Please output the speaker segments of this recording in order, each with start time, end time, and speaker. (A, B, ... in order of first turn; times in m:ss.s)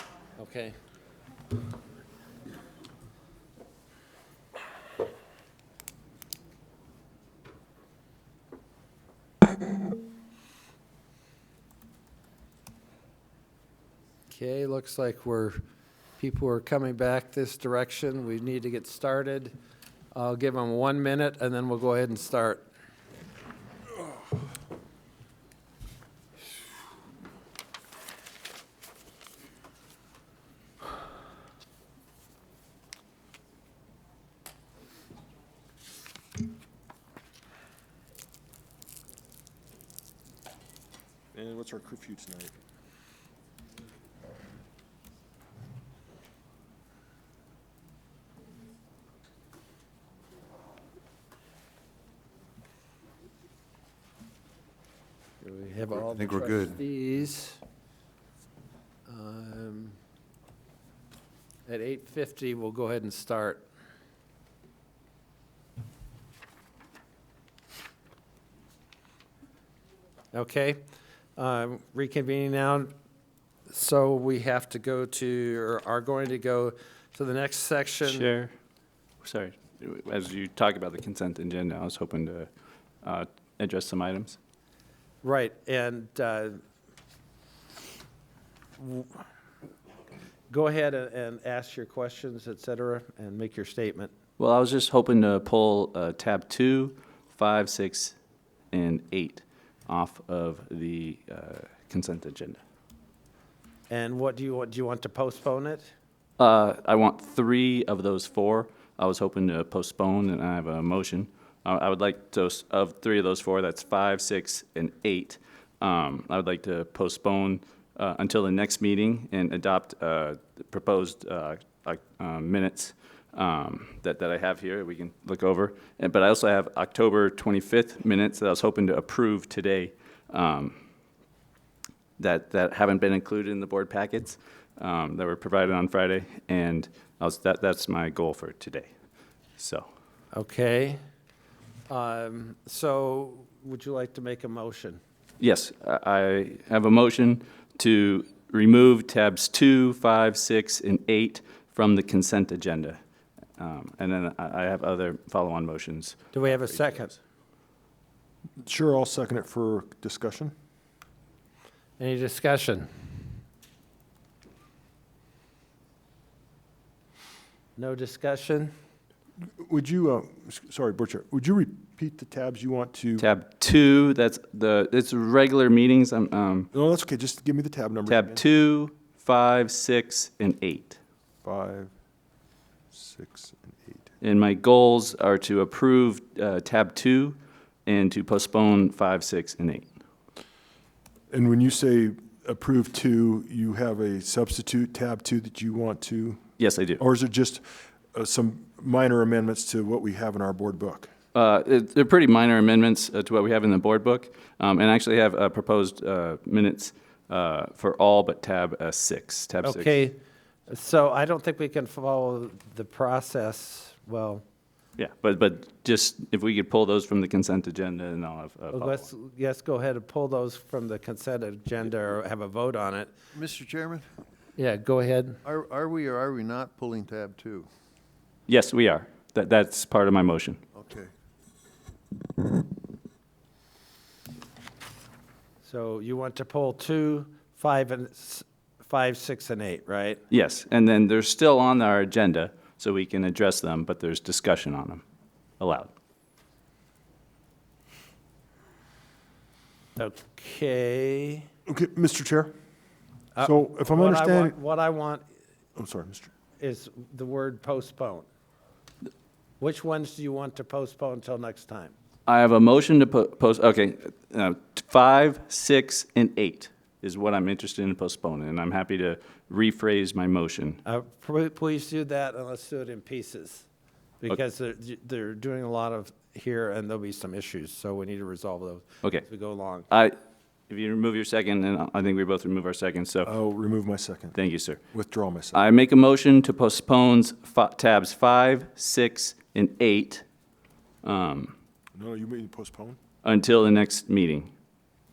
0:00.4-0:00.7 A
0:14.3-0:15.6 A
0:16.2-0:19.5 A
0:20.1-0:22.6 A
0:41.3-0:42.5 B
0:55.4-0:57.6 A
0:56.1-0:56.8 C
0:59.1-1:00.0 A
1:01.7-1:03.6 A
1:10.3-1:10.8 A
1:11.4-1:12.9 A
1:13.7-1:18.3 A
1:18.0-1:18.5 D
1:19.2-1:22.5 D
1:23.0-1:24.4 D
1:25.2-1:26.6 A
1:28.8-1:29.2 A
1:30.5-1:34.1 A
1:34.4-1:38.1 D
1:38.7-1:42.6 D
1:43.9-1:45.9 A
1:46.4-2:10.7 D
2:12.2-2:18.9 D
2:19.6-2:19.9 D
2:20.3-2:21.0 A
2:21.9-2:25.0 A
2:25.4-2:33.0 D
2:33.6-2:37.2 D
2:36.3-2:37.1 A
2:38.6-2:40.5 B
2:42.0-2:42.9 A
2:47.8-2:48.7 A
2:49.6-2:53.2 B
2:53.2-2:56.7 D
2:56.7-2:58.4 B
2:58.1-3:01.0 D
3:01.4-3:01.9 B
3:02.9-3:04.0 B
3:04.2-3:09.8 D
3:11.3-3:16.4 B
3:16.6-3:17.0 D
3:17.0-3:21.1 B
3:21.3-3:30.0 D
3:29.6-3:34.4 A
3:35.0-3:39.1 D
3:38.7-3:43.1 A
3:43.3-3:44.1 C
3:44.6-3:45.4 A
3:45.4-3:47.7 C
3:48.5-3:50.6 D
3:50.7-3:51.1 C
3:55.6-4:00.2 A
4:00.3-4:05.0 D
4:05.6-4:05.9 D
4:10.0-4:11.5 A
4:11.7-4:12.5 B
4:13.3-4:15.2 A
4:13.4-4:14.6 B
4:15.8-4:16.3 B
4:16.6-4:18.2 A
4:19.6-4:21.9 A
4:22.3-4:30.8 D
4:30.8-4:33.6 A
4:34.2-4:39.9 A
4:39.9-4:40.1 D
4:40.7-4:43.3 D
4:43.2-4:44.4 B
4:44.3-4:44.8 D
4:44.9-4:45.6 B
4:45.5-4:50.2 D
4:51.0-4:51.5 D
4:51.9-4:53.0 B
4:53.2-4:54.5 D